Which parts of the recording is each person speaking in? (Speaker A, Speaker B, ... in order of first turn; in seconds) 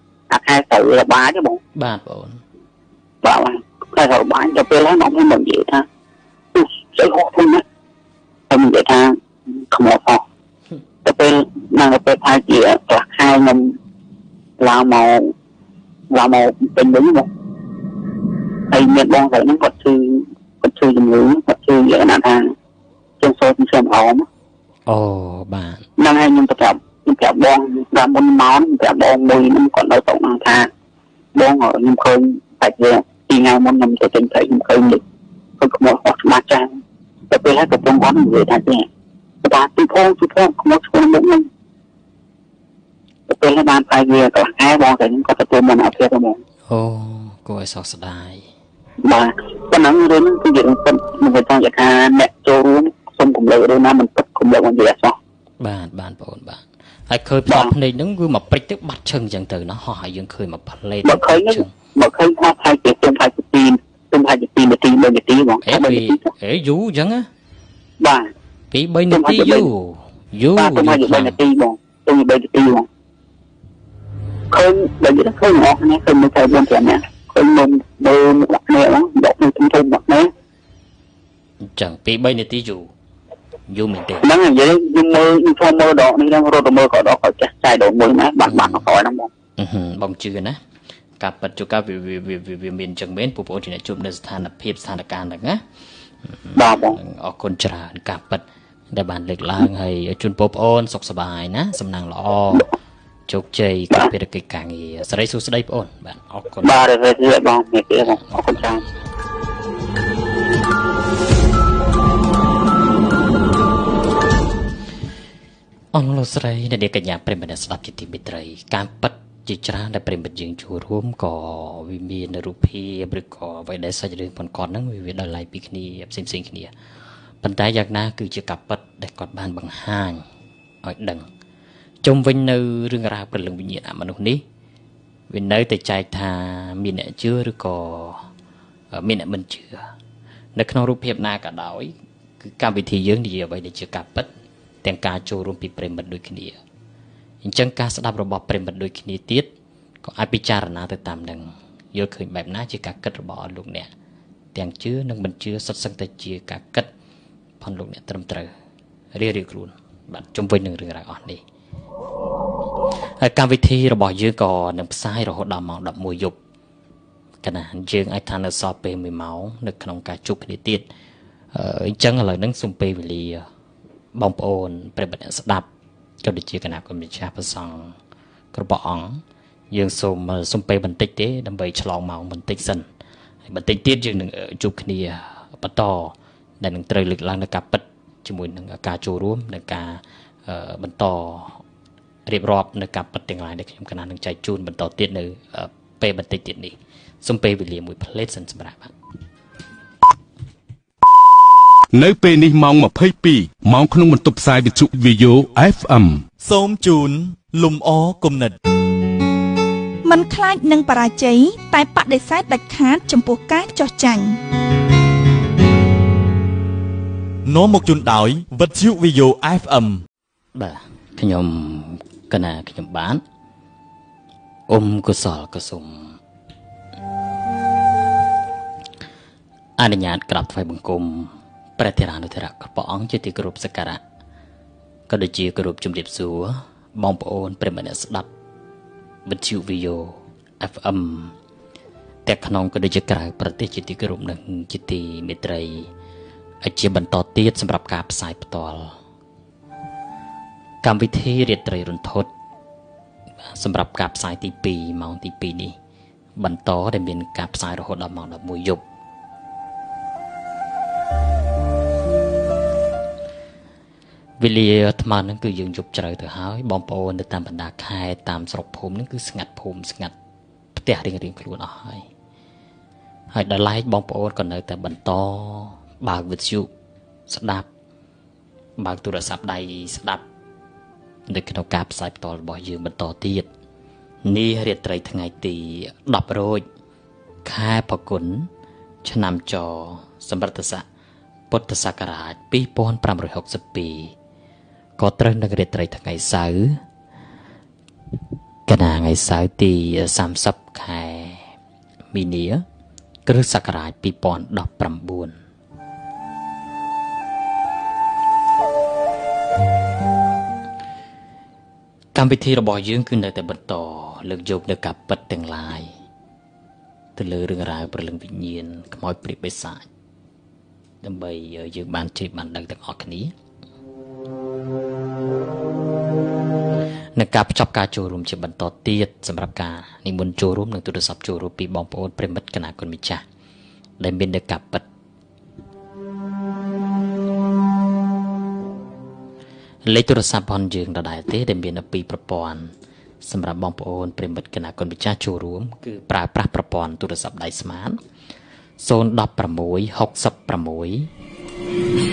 Speaker A: 0.3-1.6, 3.2-5.8, 6.5-7.6, 8.5-9.1, 9.7-10.2, 11.0-13.8, 14.6-15.3, 16.1-17.3, 18.7-22.5, 23.2-24.2, 26.0-30.7, 31.3-35.0, 35.6-36.8, 37.3-38.9, 39.4-41.5, 43.3-46.4, 49.0-55.2, 61.0-66.2, 68.0-68.3, 69.1-69.7, 70.5-72.9, 74.5-80.3, 84.2-89.3, 96.5-97.0, 106.6-108.8
Speaker B: 1.7-2.4, 24.9-25.9, 46.7-48.5, 55.6-61.7, 65.6-67.3, 68.7-71.4, 81.6-82.9, 83.7-84.3, 88.4-88.9, 89.6-90.6, 91.2-95.6, 96.2-102.7, 103.3-106.8, 108.0-108.8, 115.9-126.7, 127.4-130.2, 130.8-131.3, 132.0-134.4, 135.3-138.2, 138.9-139.9, 140.5-144.3, 144.8-146.6, 147.4-149.5, 150.0-153.9, 154.5-156.9, 157.6-158.5, 159.1-161.4, 163.2-166.4, 167.4-170.9, 171.5-173.4, 174.1-175.7, 176.2-178.0, 178.5-182.8, 183.5-191.6, 192.2-198.9, 220.5-223.2, 224.7-226.2, 229.8-234.0, 235.1-238.3, 239.2-241.3, 242.2-245.9, 246.6-248.9, 250.8-252.3, 253.4-255.7, 256.4-258.8, 264.4-270.1, 270.8-272.1, 273.3-276.7, 277.3-277.7, 278.8-280.2, 281.3-283.5, 284.2-286.6, 287.4-288.5, 289.0-290.8, 291.5-294.1, 295.0-296.8, 298.7-301.5, 302.1-302.6, 303.2-305.4, 312.1-315.9, 317.1-319.8, 321.0-323.3, 327.1-333.2, 334.0-334.8, 339.8-342.7, 343.2-348.0, 348.8-351.1
Speaker C: 201.9-206.2
Speaker D: 206.4-208.5, 217.4-220.0
Speaker E: 210.0-214.4